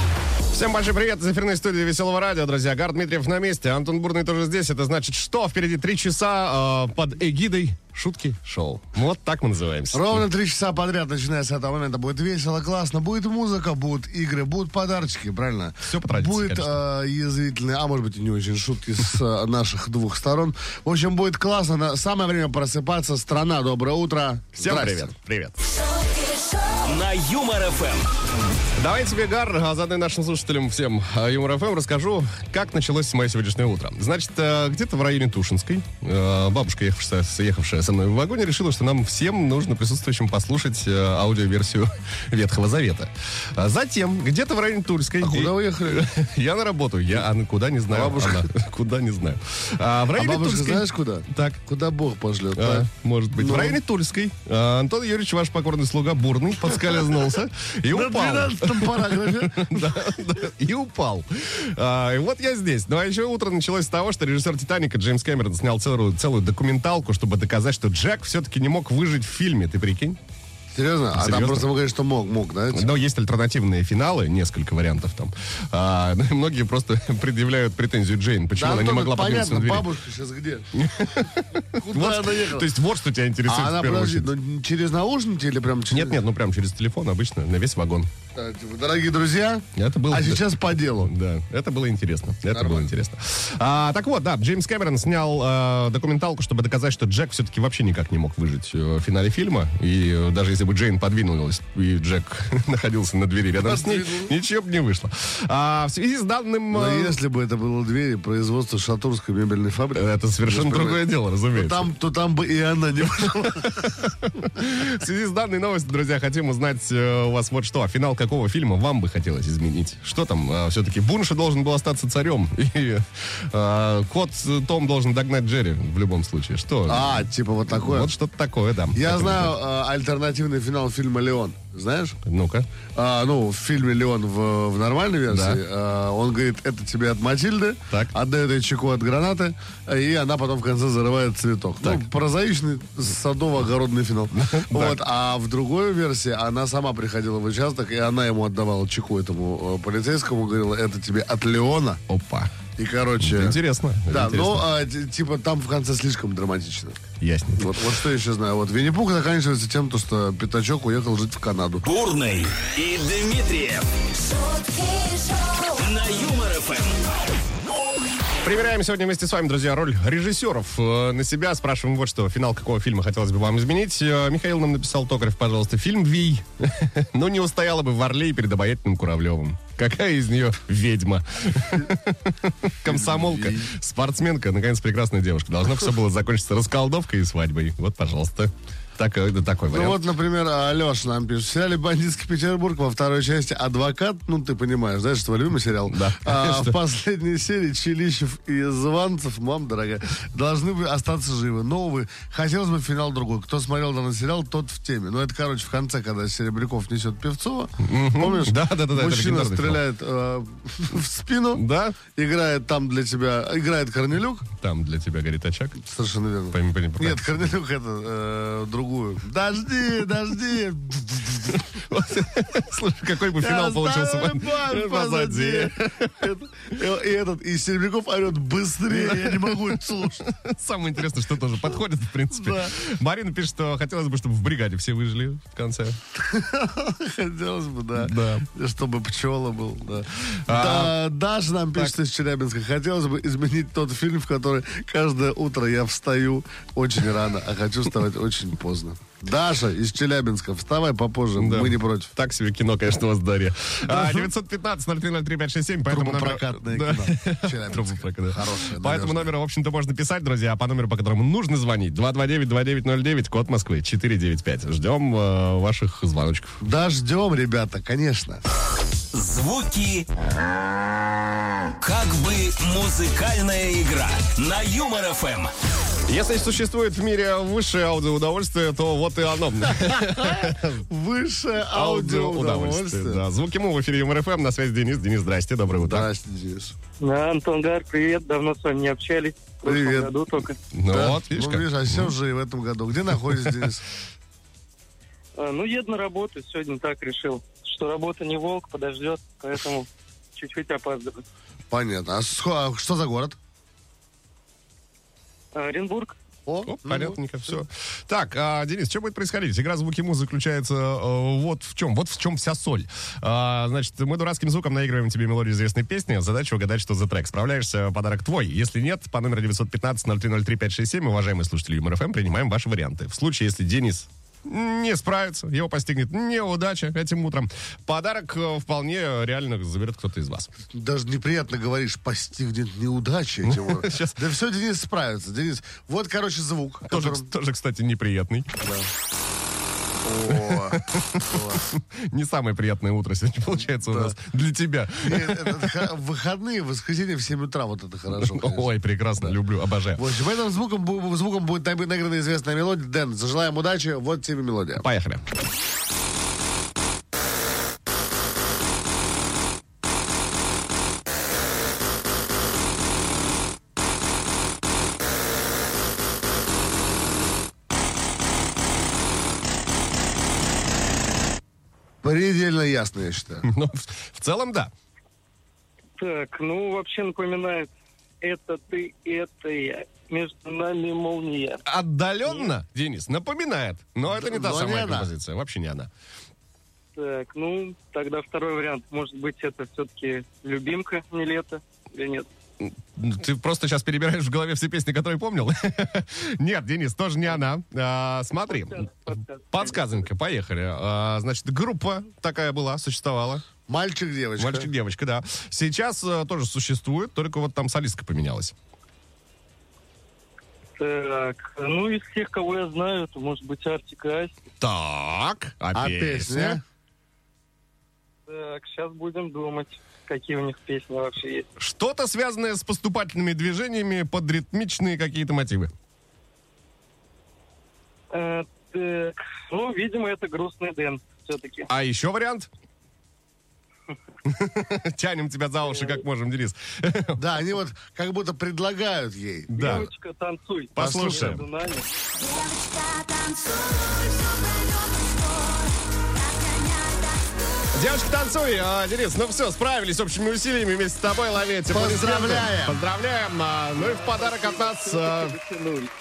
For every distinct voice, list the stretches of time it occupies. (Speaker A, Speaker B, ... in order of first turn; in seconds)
Speaker A: 0.5-10.3, 15.8-16.8, 24.6-25.6, 28.8-51.6, 52.5-70.2, 71.1-71.7, 72.7-79.9, 80.7-84.3, 85.9-88.1, 89.7-107.2, 110.0-111.9, 113.5-129.6, 132.2-132.7, 135.3-135.6, 141.8-142.1, 144.3-145.0, 152.1-152.5, 153.2-154.7, 157.2-157.9, 168.4-190.0, 195.8-196.8, 207.8-209.8, 211.5-212.0, 214.5-215.8, 216.5-217.3, 221.5-226.3, 228.9-236.0, 237.9-238.5, 240.2-241.0, 251.4-266.6, 276.1-280.8, 281.7-286.1, 290.7-292.1, 306.6-330.5, 333.4-334.2, 336.9-338.6, 340.3-345.9, 348.1-350.1, 354.8-355.2, 373.4-374.7, 381.6-385.9, 392.6-403.4, 404.4-408.5, 414.6-416.6, 421.6-425.7, 431.7-432.5, 434.2-437.2, 439.5-439.9, 440.8-441.4, 447.7-455.4
Speaker B: 9.9-25.1, 45.2-46.1, 47.9-48.5, 50.1-53.8, 57.9-59.9, 70.7-72.9, 78.6-80.7, 81.7-82.7, 83.5-86.2, 88.3-91.1, 92.5-92.9, 103.6-104.3, 106.7-114.0, 126.9-128.1, 128.9-132.2, 132.9-152.0, 152.8-157.0, 157.6-161.9, 182.8-183.7, 189.7-214.4, 215.8-221.6, 223.4-230.3, 232.3-232.7, 236.2-252.1, 253.9-254.3, 255.9-259.3, 266.6-268.4, 279.8-283.2, 285.7-286.7, 289.6-290.1, 290.9-293.9, 301.7-303.4, 306.4-307.6, 330.7-337.3, 338.6-338.9, 340.0-341.7, 343.9-344.1, 345.0-348.7, 349.9-354.9, 372.0-373.5, 384.2-385.1, 403.7-404.7, 415.8-416.6, 437.1-439.8, 440.8-441.4, 451.7-452.8
Speaker C: 26.8-28.1, 161.8-163.9, 165.7-167.0, 269.1-270.1, 271.8-275.5
Speaker D: 164.2-165.7, 442.2-447.6
Speaker E: 287.0-290.6, 295.4-301.2, 305.5-306.1, 376.0-377.7, 378.2-381.6, 386.9-392.3, 398.5-399.9, 410.8-414.3, 418.3-421.5, 428.1-431.7, 439.6-441.9, 453.8-455.9